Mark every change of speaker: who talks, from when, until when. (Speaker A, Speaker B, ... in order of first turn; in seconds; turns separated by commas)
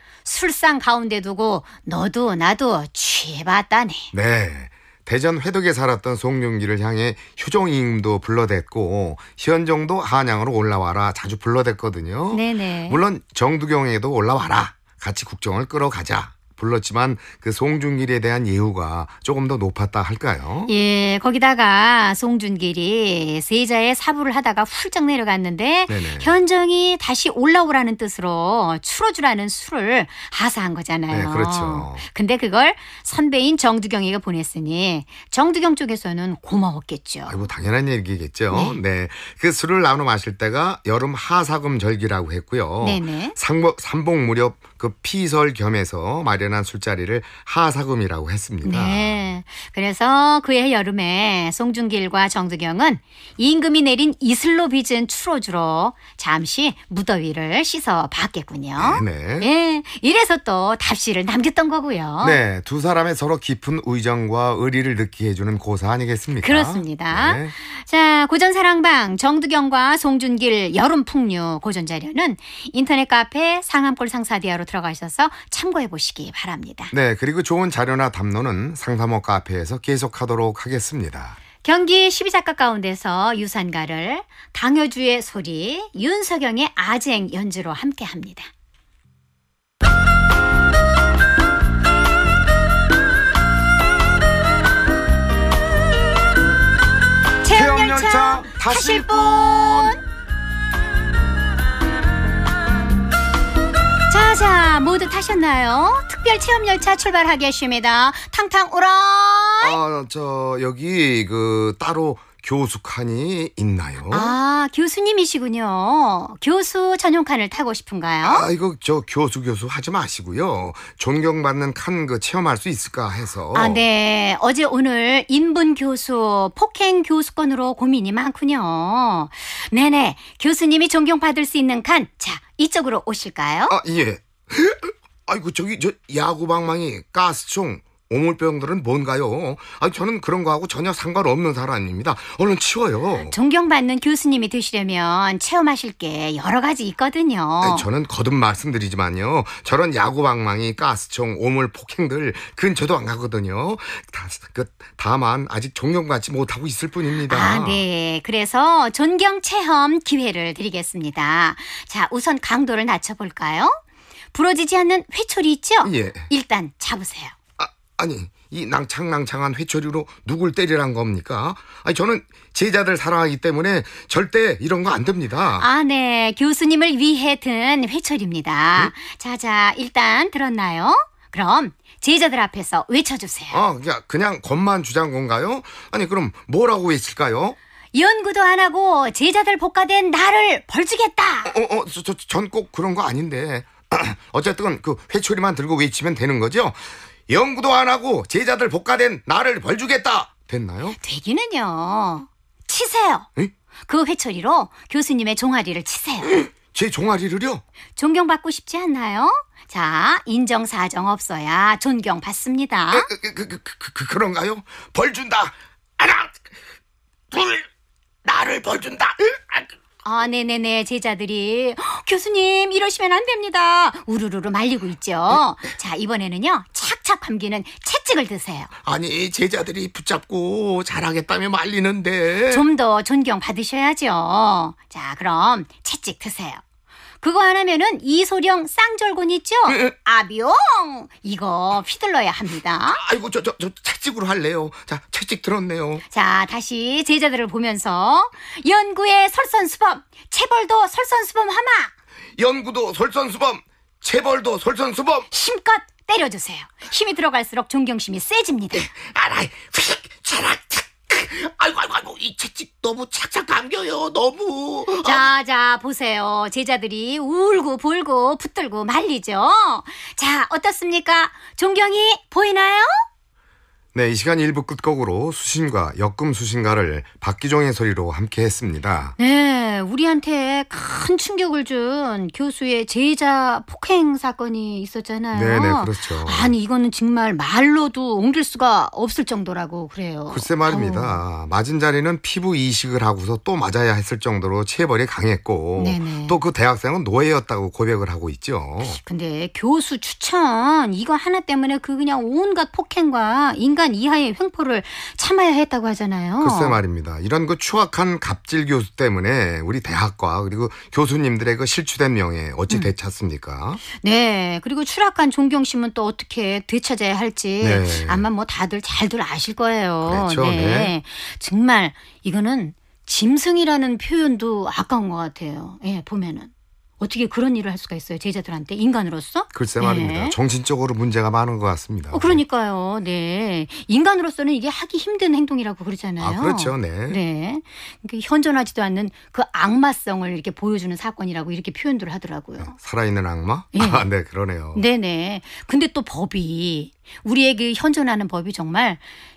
Speaker A: 0.2-4.1, Speaker B: 4.1-20.7, Speaker A: 12.3-13.0, Speaker A: 20.7-37.4, Speaker B: 25.9-26.4, Speaker B: 31.1-32.0, Speaker B: 37.3-49.1, Speaker A: 38.5-38.8, Speaker A: 42.8-43.4, Speaker A: 48.6-62.4, Speaker B: 58.8-59.5, Speaker B: 62.2-67.5, Speaker A: 66.4-76.9, Speaker B: 76.9-81.4, Speaker A: 81.6-88.5, Speaker A: 97.4-100.0, Speaker B: 97.5-100.0, Speaker A: 104.1-109.8, Speaker B: 109.6-114.3, Speaker A: 114.1-118.5, Speaker B: 118.2-123.8, Speaker A: 123.5-133.8, Speaker B: 133.7-143.3, Speaker A: 143.2-147.8, Speaker B: 147.6-157.8, Speaker A: 157.2-163.8, Speaker A: 164.3-167.3, Speaker B: 165.8-166.3, Speaker B: 167.6-175.7, Speaker A: 175.6-183.6, Speaker B: 183.5-187.6, Speaker A: 187.9-191.5, Speaker B: 191.4-201.0, Speaker A: 201.0-203.3, Speaker A: 203.9-206.3, Speaker B: 206.3-207.6, Speaker A: 208.0-213.1, Speaker B: 212.9-216.6, Speaker B: 217.3-217.7, Speaker B: 218.2-219.7, Speaker A: 220.0-228.7, Speaker B: 228.8-232.6, Speaker A: 232.5-236.6, Speaker A: 237.2-243.0, Speaker B: 239.7-239.9, Speaker B: 242.9-246.0, Speaker A: 246.1-251.9, Speaker B: 252.3-255.3, Speaker A: 255.3-258.9, Speaker B: 258.7-265.3, Speaker A: 265.0-273.0, Speaker B: 273.9-279.1, Speaker A: 279.2-291.2, Speaker B: 285.3-286.5, Speaker B: 290.3-299.0, Speaker A: 295.8-296.4, Speaker A: 298.8-306.8, Speaker B: 306.4-313.8, Speaker A: 313.9-330.4, Speaker B: 317.6-318.2, Speaker B: 320.0-320.9, Speaker B: 329.5-332.4, Speaker A: 332.1-342.8, Speaker B: 336.2-337.2, Speaker B: 342.6-344.8, Speaker A: 343.7-344.0, Speaker A: 344.7-349.0